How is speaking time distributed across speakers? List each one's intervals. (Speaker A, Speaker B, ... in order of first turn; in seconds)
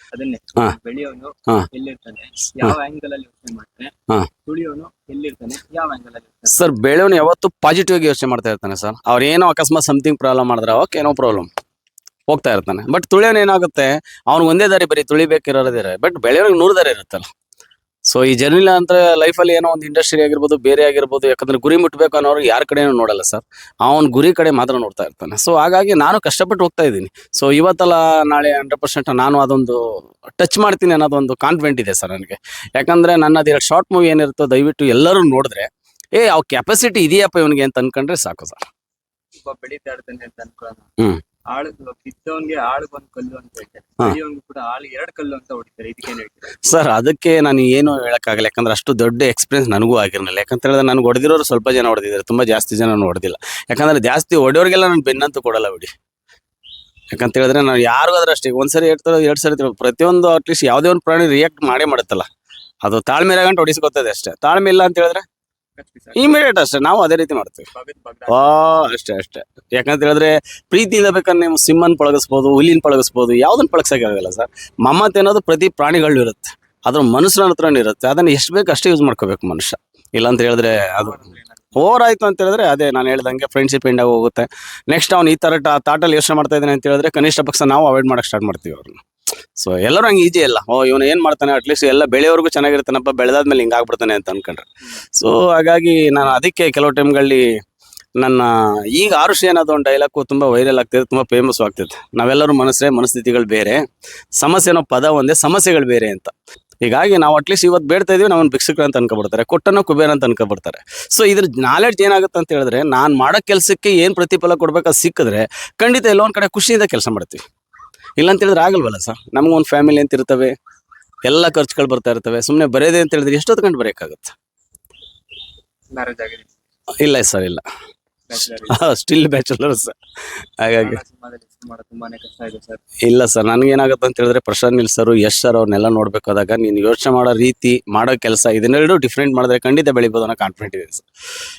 Speaker A: 0.1-3.9, 4.5-6.7, 39.4-40.9, 41.5-46.6, 65.8-66.4, 67.7-68.6, 80.8-81.8, 125.9-126.5, 128.3-128.8, 130.8-132.8
Speaker B: 6.5-11.5, 12.3-17.3, 18.1-38.6, 46.6-55.9, 57.1-62.3, 62.9-65.2, 66.2-67.7, 68.3-81.2, 81.8-89.0, 89.6-97.5, 98.2-103.8, 104.4-117.4, 118.2-120.5, 121.3-124.4, 127.0-127.6, 128.7-130.0, 130.6-131.0, 133.1-141.1